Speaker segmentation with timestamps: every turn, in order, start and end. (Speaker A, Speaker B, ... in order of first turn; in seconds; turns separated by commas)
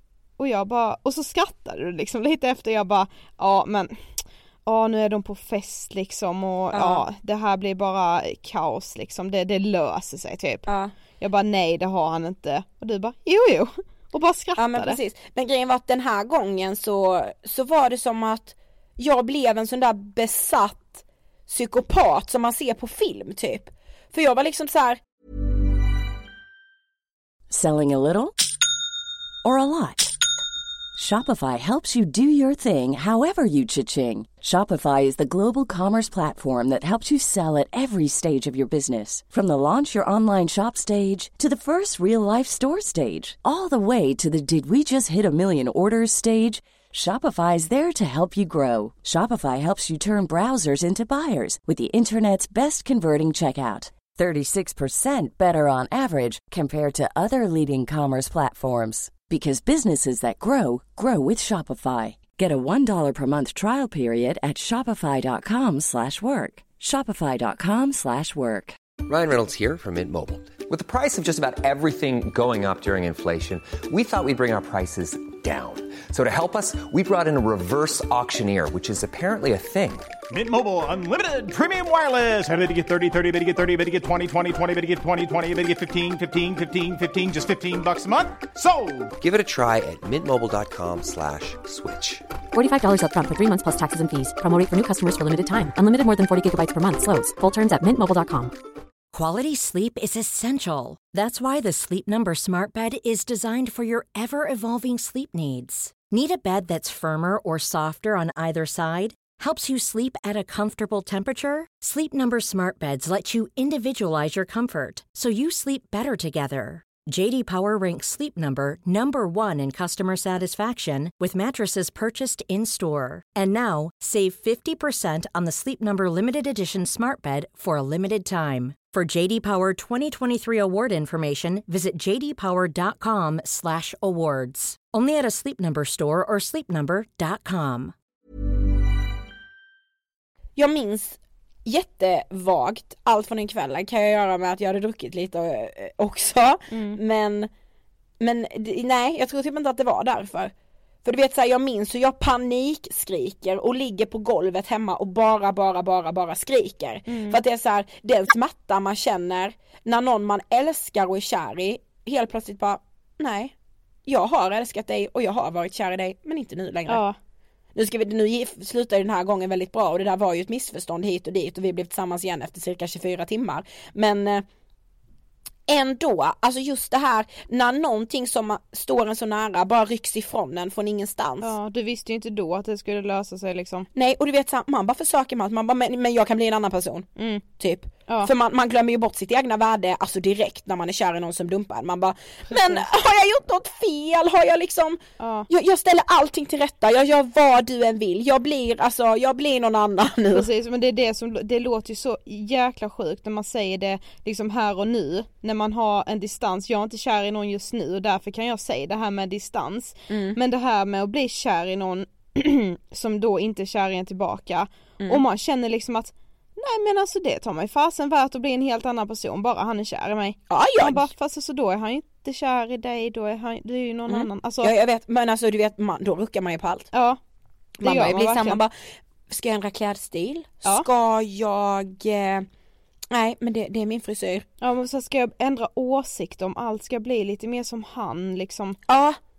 Speaker A: 0.4-10.7, Speaker B: 6.7-7.0, Speaker B: 10.7-10.9, Speaker A: 11.2-15.0, Speaker B: 14.6-25.0, Speaker C: 27.5-28.3, Speaker C: 29.4-30.1, Speaker C: 31.0-68.8, Speaker D: 69.0-80.1, Speaker E: 80.3-89.1, Speaker D: 89.2-92.3, Speaker F: 92.5-98.6, Speaker G: 99.1-137.9, Speaker B: 140.6-147.5, Speaker A: 146.7-147.0, Speaker B: 148.2-150.5, Speaker B: 151.1-163.5, Speaker A: 157.1-157.4, Speaker B: 164.1-167.0, Speaker A: 166.9-167.2, Speaker B: 167.8-174.4, Speaker B: 175.7-181.6, Speaker A: 181.4-183.9, Speaker B: 183.9-187.1, Speaker A: 187.2-187.4, Speaker B: 187.6-200.5, Speaker A: 192.5-192.8, Speaker A: 195.2-195.5, Speaker A: 200.3-224.7, Speaker B: 210.1-210.4, Speaker B: 220.5-221.1, Speaker B: 224.1-226.9, Speaker A: 226.9-227.2, Speaker B: 227.8-228.7, Speaker A: 227.8-228.6, Speaker B: 229.3-232.5, Speaker B: 233.1-234.5, Speaker A: 234.6-238.8, Speaker B: 238.9-239.2